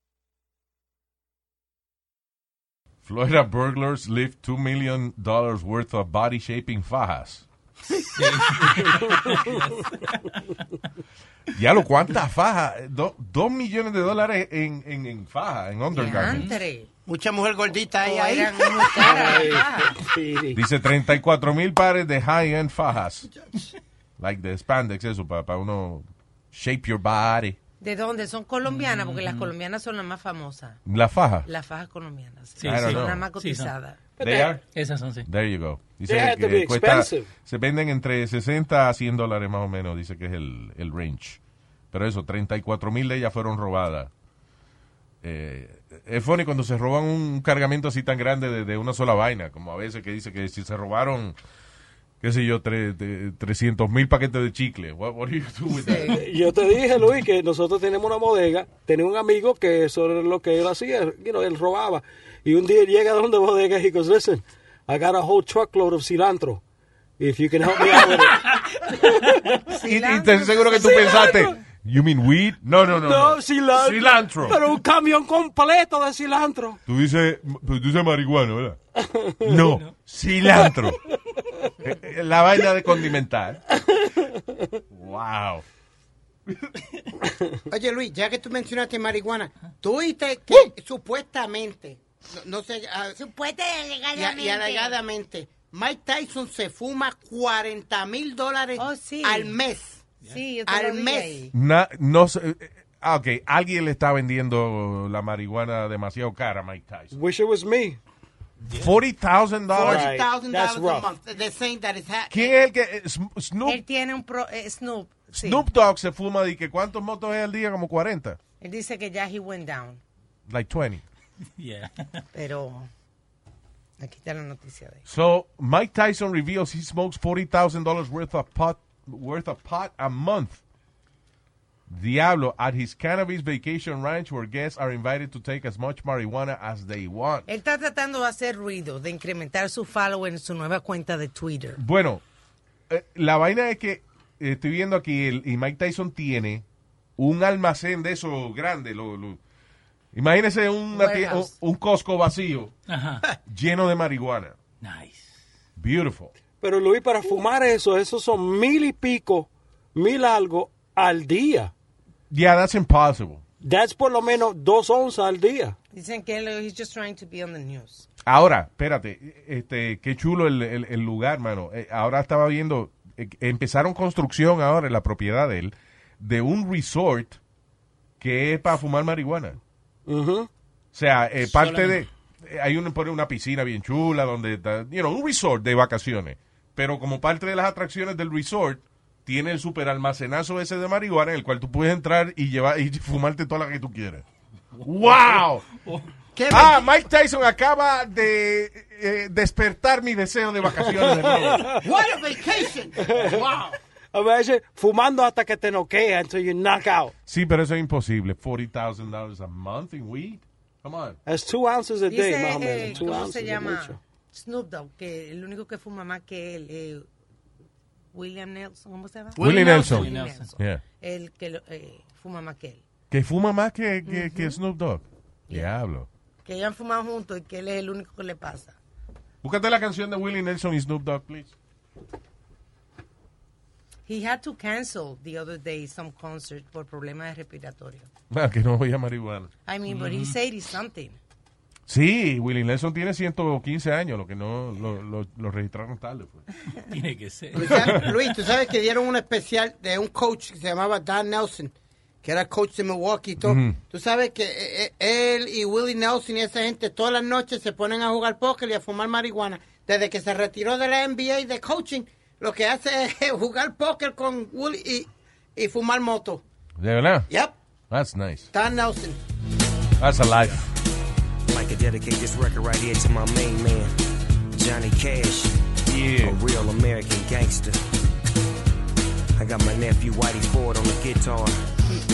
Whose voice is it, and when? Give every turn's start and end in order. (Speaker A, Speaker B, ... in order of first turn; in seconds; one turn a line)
Speaker A: 3.0-7.4
Speaker B: 8.2-10.4
Speaker C: 9.1-9.3
Speaker A: 11.5-16.5
Speaker D: 15.9-16.9
Speaker B: 16.0-16.6
Speaker E: 17.1-19.2
Speaker D: 18.0-19.9
Speaker C: 18.8-20.6
Speaker A: 20.5-23.3
Speaker A: 24.2-27.6
Speaker D: 27.8-30.8
Speaker B: 28.6-29.5
Speaker A: 30.9-31.5
Speaker D: 31.4-34.0
Speaker B: 32.6-33.7
Speaker A: 32.6-33.2
Speaker C: 34.2-34.5
Speaker A: 34.2-34.6
Speaker B: 34.7-35.3
Speaker A: 35.2-41.4
Speaker C: 36.0-37.3
Speaker A: 41.9-44.1
Speaker A: 45.2-51.3
Speaker A: 52.2-56.1
Speaker D: 55.7-56.2
Speaker C: 56.1-66.6
Speaker C: 67.2-68.4
Speaker D: 69.7-71.5
Speaker A: 69.8-74.6
Speaker C: 70.9-71.5
Speaker C: 73.0-76.8
Speaker A: 76.9-78.8
Speaker C: 79.0-79.6
Speaker A: 79.4-81.0
Speaker A: 81.8-83.6
Speaker A: 84.9-85.6
Speaker E: 87.7-93.2
Speaker D: 93.2-95.0
Speaker E: 94.1-100.0
Speaker D: 98.8-99.6
Speaker D: 100.3-101.5
Speaker E: 100.7-101.5
Speaker A: 101.5-107.1
Speaker C: 107.1-108.0
Speaker A: 108.7-110.1
Speaker C: 109.8-111.0
Speaker E: 109.8-112.5
Speaker A: 112.3-113.8
Speaker D: 113.6-115.6
Speaker A: 115.3-118.4
Speaker D: 118.6-120.0
Speaker A: 120.5-121.0
Speaker B: 121.6-122.2
Speaker D: 122.3-122.9
Speaker D: 124.0-125.0
Speaker A: 125.0-130.6
Speaker A: 131.9-137.4
Speaker D: 137.5-141.8
Speaker A: 141.8-142.2
Speaker A: 142.9-146.6
Speaker A: 147.2-149.4
Speaker A: 150.1-152.7
Speaker D: 150.9-151.5
Speaker B: 152.9-153.2
Speaker A: 153.5-154.6
Speaker B: 154.8-155.3
Speaker A: 155.8-156.3
Speaker C: 156.6-161.7
Speaker A: 162.3-163.4
Speaker C: 163.6-165.8
Speaker D: 165.9-168.1
Speaker A: 168.2-177.4
Speaker A: 178.2-179.6
Speaker C: 180.1-180.5
Speaker A: 180.9-194.2
Speaker B: 181.4-182.0
Speaker A: 194.8-195.6
Speaker E: 196.3-197.0
Speaker A: 196.5-201.7
Speaker C: 200.8-201.7
Speaker E: 201.8-203.3
Speaker C: 203.0-203.4
Speaker C: 204.1-207.1
Speaker A: 207.3-211.2
Speaker C: 211.2-214.0
Speaker D: 212.1-217.1
Speaker D: 218.1-222.8
Speaker A: 219.4-220.8
Speaker B: 219.4-220.5
Speaker A: 223.1-226.1
Speaker D: 224.1-224.6
Speaker D: 226.4-228.8
Speaker A: 229.4-231.5
Speaker D: 234.1-238.1
Speaker A: 238.3-239.5
Speaker D: 239.7-241.2
Speaker B: 239.9-240.3
Speaker A: 241.9-246.4
Speaker B: 246.9-248.1
Speaker E: 247.5-266.4
Speaker A: 247.7-248.0
Speaker A: 253.4-253.8
Speaker A: 266.8-267.3
Speaker E: 267.3-267.5
Speaker A: 267.9-268.5
Speaker E: 268.5-269.2
Speaker A: 270.0-270.7
Speaker F: 271.5-273.9
Speaker F: 274.5-275.5
Speaker A: 275.9-276.4
Speaker F: 276.2-277.8
Speaker F: 279.4-281.6